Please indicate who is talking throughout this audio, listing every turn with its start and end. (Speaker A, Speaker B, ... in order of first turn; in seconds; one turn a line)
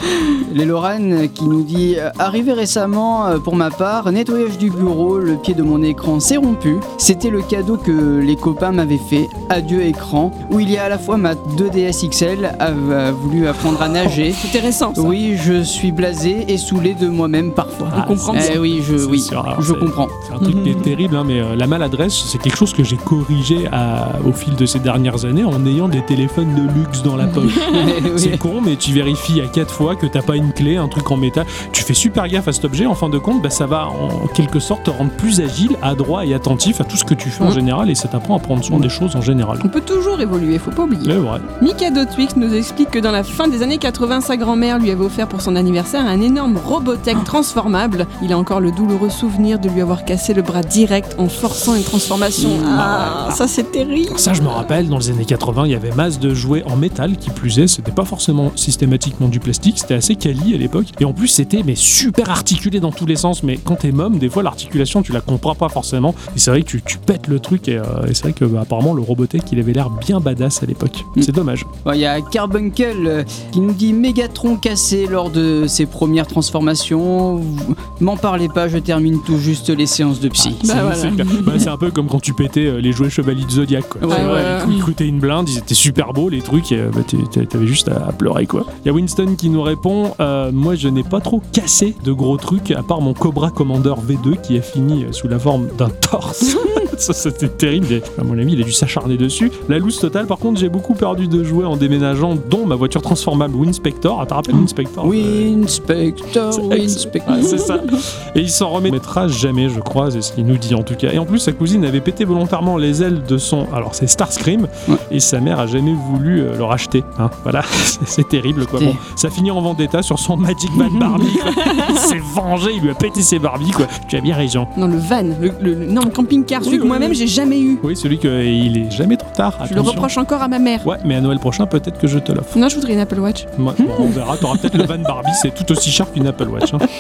Speaker A: 0.3-14.4
Speaker B: 14.0-15.2
Speaker A: 14.9-20.1
Speaker C: 17.9-39.7
Speaker B: 17.9-18.6
Speaker B: 20.4-20.9
Speaker B: 27.4-27.9
Speaker A: 27.6-28.4
Speaker B: 39.6-54.3
Speaker C: 41.0-41.5
Speaker A: 52.4-52.8
Speaker C: 52.7-53.4
Speaker C: 54.1-71.7
Speaker A: 71.8-81.0
Speaker C: 80.4-105.6
Speaker B: 80.6-81.7
Speaker A: 84.0-84.7
Speaker B: 84.1-84.9
Speaker A: 104.5-107.7
Speaker C: 106.5-124.7
Speaker B: 107.4-107.7
Speaker B: 121.5-121.9
Speaker B: 124.8-127.8
Speaker C: 126.6-127.2
Speaker C: 127.8-130.1
Speaker B: 129.7-130.9
Speaker C: 130.8-132.6
Speaker B: 132.5-134.1
Speaker C: 133.6-136.8
Speaker A: 133.8-134.1